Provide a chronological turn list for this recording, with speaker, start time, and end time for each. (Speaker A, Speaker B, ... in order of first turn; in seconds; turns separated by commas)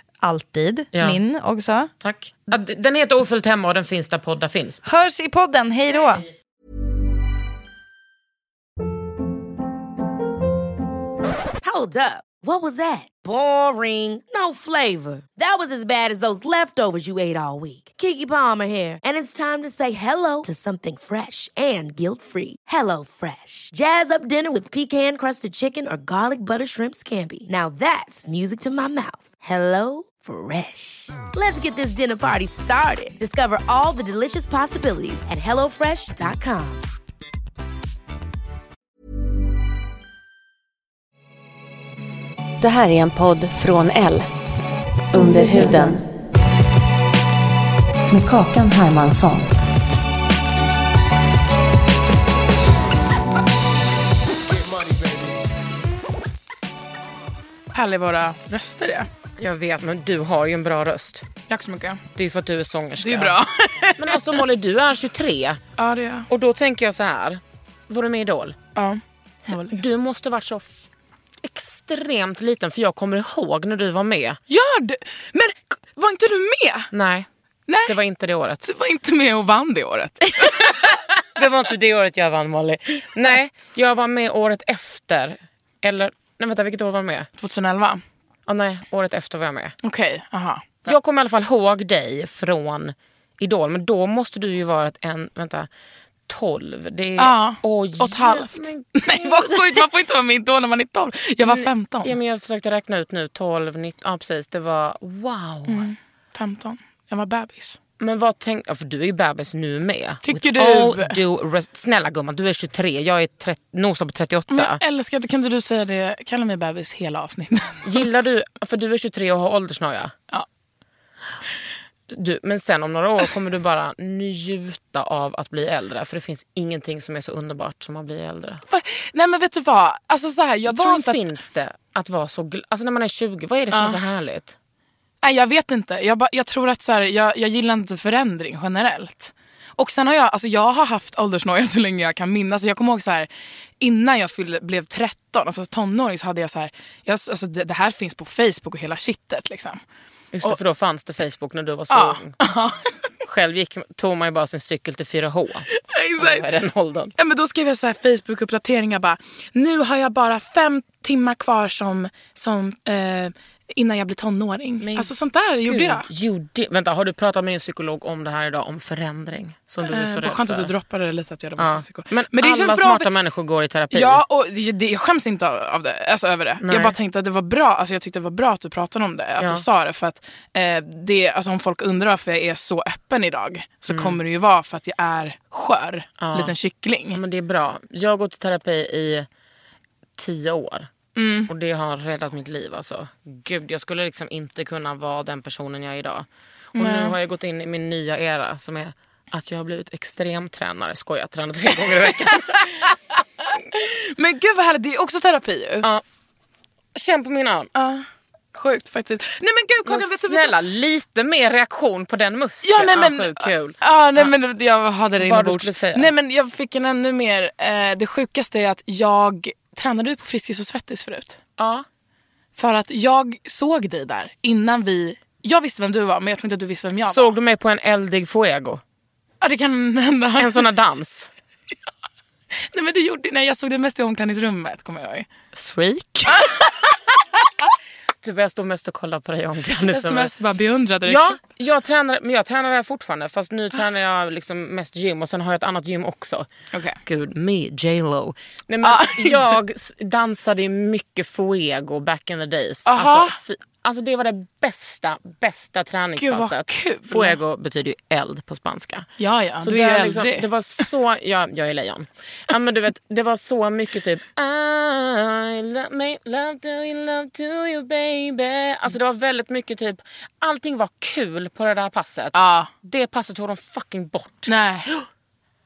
Speaker A: 0.2-1.9, Speaker B: 0.9-1.2, Speaker B: 2.0-4.8, Speaker A: 4.8-6.2, Speaker C: 11.6-36.9, Speaker D: 42.6-44.3, Speaker D: 45.1-46.0, Speaker D: 48.1-49.5, Speaker E: 57.7-59.1, Speaker B: 59.4-61.2, Speaker E: 61.5-62.0, Speaker B: 62.1-63.4, Speaker E: 63.0-64.4, Speaker B: 64.0-65.6, Speaker E: 65.8-66.3, Speaker B: 66.3-68.5, Speaker E: 68.7-69.8, Speaker B: 69.7-70.8, Speaker B: 71.4-74.4, Speaker E: 74.5-76.9, Speaker B: 76.9-77.3, Speaker E: 77.7-78.0, Speaker B: 77.8-78.6, Speaker E: 78.6-80.8, Speaker B: 80.6-87.3, Speaker E: 87.4-88.0, Speaker B: 88.5-89.8, Speaker E: 89.8-91.0, Speaker B: 90.8-95.7, Speaker B: 96.3-99.8, Speaker E: 97.2-102.2, Speaker B: 101.5-105.9, Speaker E: 105.7-107.8, Speaker B: 108.0-114.8, Speaker E: 110.2-111.2, Speaker E: 114.5-118.0, Speaker B: 117.8-120.1, Speaker B: 122.1-128.6, Speaker E: 128.7-131.2, Speaker B: 130.7-134.5, Speaker E: 133.7-134.0, Speaker E: 135.2-149.8, Speaker B: 150.3-152.4, Speaker E: 151.9-152.9, Speaker B: 153.2-157.1, Speaker E: 155.8-156.5, Speaker E: 157.2-166.1, Speaker B: 164.8-165.1, Speaker B: 165.6-170.7, Speaker E: 169.8-173.1, Speaker B: 171.6-174.2, Speaker E: 173.9-187.2, Speaker B: 176.6-176.9, Speaker B: 179.4-179.6, Speaker B: 183.9-184.2, Speaker B: 186.2-186.5, Speaker B: 187.1-189.3, Speaker B: 190.2-190.9, Speaker E: 191.2-191.5, Speaker B: 191.5-202.9, Speaker E: 196.7-197.2, Speaker E: 201.9-202.7, Speaker E: 203.7-205.9, Speaker B: 206.9-207.7, Speaker E: 207.7-210.6, Speaker B: 209.8-214.3, Speaker E: 212.6-221.4, Speaker B: 215.2-216.1, Speaker B: 221.6-221.8, Speaker E: 222.6-227.3, Speaker B: 227.0-228.8, Speaker E: 229.4-230.7, Speaker B: 230.4-231.3, Speaker E: 232.5-235.3, Speaker B: 235.5-236.4, Speaker E: 236.3-236.7, Speaker B: 238.2-240.3, Speaker E: 239.8-241.4, Speaker B: 241.0-246.5, Speaker E: 246.7-247.0, Speaker B: 247.1-259.1, Speaker E: 248.8-249.6, Speaker E: 252.8-253.4, Speaker E: 256.2-257.4, Speaker E: 259.2-260.5, Speaker B: 259.6-275.0, Speaker E: 272.3-272.7, Speaker E: 274.5-274.9